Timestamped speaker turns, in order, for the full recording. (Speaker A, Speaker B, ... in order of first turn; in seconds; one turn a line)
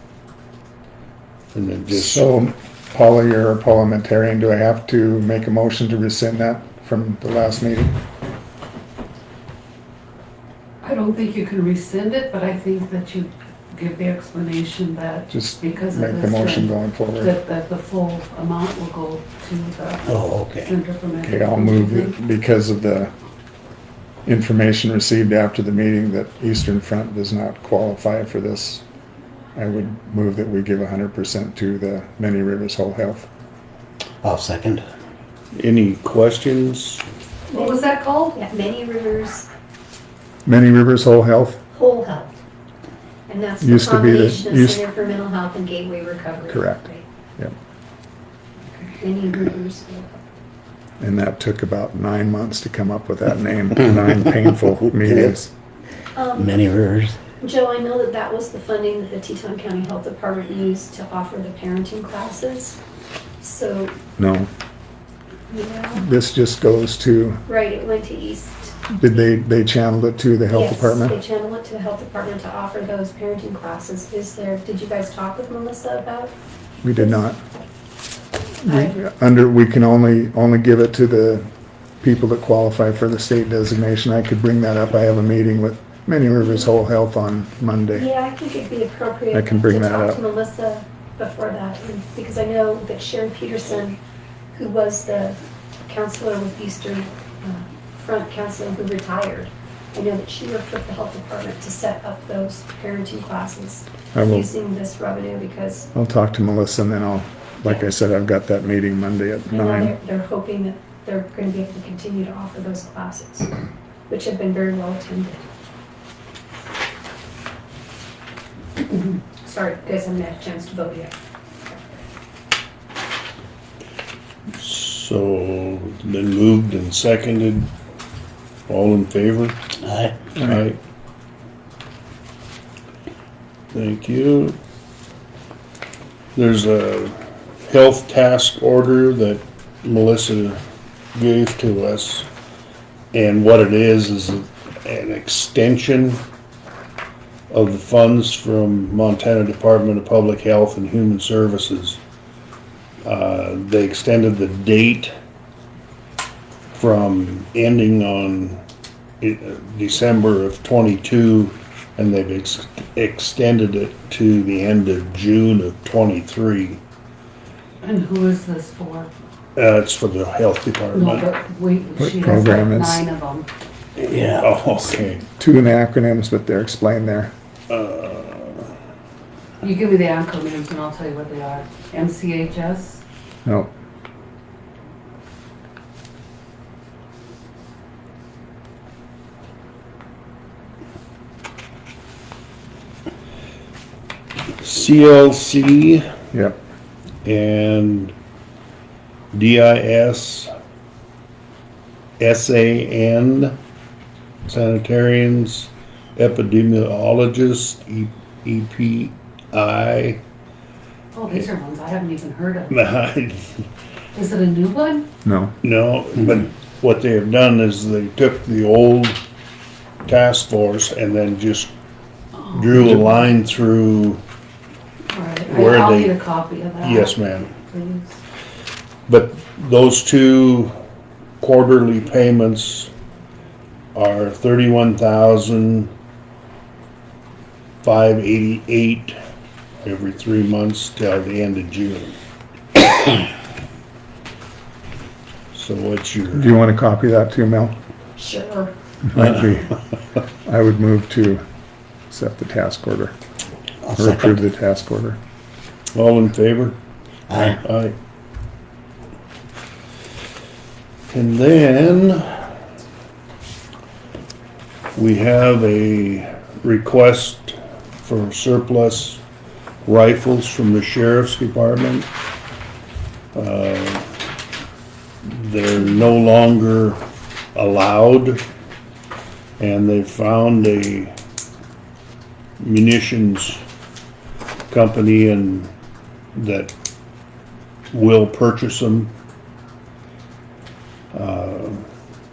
Speaker A: 1.5-2.3
Speaker B: 1.9-8.0
Speaker C: 10.8-22.2
Speaker B: 15.3-17.3
Speaker D: 20.1-20.7
Speaker B: 21.2-23.1
Speaker B: 24.3-28.8
Speaker B: 29.6-33.3
Speaker D: 34.2-34.9
Speaker A: 35.5-37.0
Speaker E: 37.5-39.5
Speaker C: 37.5-38.4
Speaker B: 40.5-41.6
Speaker E: 41.7-42.4
Speaker E: 43.3-47.0
Speaker B: 43.6-44.9
Speaker B: 46.5-46.9
Speaker E: 48.7-50.3
Speaker B: 51.0-55.5
Speaker E: 56.2-56.6
Speaker D: 56.4-57.2
Speaker E: 57.4-62.8
Speaker E: 63.4-64.0
Speaker B: 64.2-64.5
Speaker E: 65.5-66.0
Speaker B: 66.0-67.4
Speaker E: 67.5-68.9
Speaker B: 68.9-71.2
Speaker E: 70.5-76.3
Speaker B: 76.8-77.4
Speaker B: 78.6-81.5
Speaker E: 78.7-79.0
Speaker B: 82.0-88.1
Speaker E: 87.9-94.0
Speaker B: 89.3-90.2
Speaker E: 94.5-105.9
Speaker B: 104.1-104.5
Speaker B: 105.9-110.0
Speaker E: 109.5-113.5
Speaker E: 114.1-115.4
Speaker E: 118.8-121.1
Speaker E: 121.7-122.0
Speaker A: 124.6-127.7
Speaker A: 128.7-129.6
Speaker D: 129.8-130.1
Speaker A: 130.3-130.8
Speaker A: 133.7-134.6
Speaker A: 136.3-140.6
Speaker A: 141.1-142.3
Speaker A: 143.1-146.2
Speaker A: 147.5-152.0
Speaker A: 153.0-155.1
Speaker A: 156.7-158.6
Speaker A: 159.2-166.8
Speaker C: 167.8-169.1
Speaker A: 169.6-171.3
Speaker C: 170.9-173.5
Speaker B: 172.0-173.0
Speaker A: 174.0-175.3
Speaker D: 174.1-174.5
Speaker B: 175.4-177.3
Speaker A: 177.7-178.7
Speaker C: 179.6-183.0
Speaker B: 183.4-183.7
Speaker A: 194.6-196.1
Speaker B: 196.3-196.6
Speaker A: 197.2-198.1
Speaker A: 199.3-200.5
Speaker A: 202.2-203.6
Speaker A: 204.5-210.2
Speaker C: 211.1-212.8
Speaker A: 212.7-213.6
Speaker C: 214.1-215.1
Speaker B: 215.2-215.6
Speaker A: 215.6-219.2
Speaker A: 220.1-221.7
Speaker C: 222.4-222.9
Speaker A: 222.5-224.2
Speaker C: 225.1-228.2
Speaker A: 225.5-226.2
Speaker A: 226.8-227.5
Speaker A: 229.1-230.7
Speaker A: 231.4-232.9
Speaker A: 233.9-235.9
Speaker A: 237.8-239.2
Speaker A: 239.8-242.2
Speaker A: 245.5-246.6
Speaker B: 246.3-247.8
Speaker E: 248.2-248.7
Speaker B: 249.1-249.7
Speaker B: 250.4-251.4
Speaker B: 252.1-253.2
Speaker B: 253.9-255.2
Speaker A: 255.9-256.8
Speaker D: 257.3-257.6
Speaker A: 257.3-257.9
Speaker A: 261.1-262.5
Speaker A: 265.0-269.2
Speaker A: 269.9-272.1
Speaker A: 273.4-274.1
Speaker A: 275.2-277.0
Speaker A: 277.6-278.4
Speaker A: 279.6-281.1
Speaker A: 282.6-283.6
Speaker A: 284.7-285.7
Speaker A: 286.4-286.7
Speaker A: 287.9-289.1
Speaker A: 291.1-291.8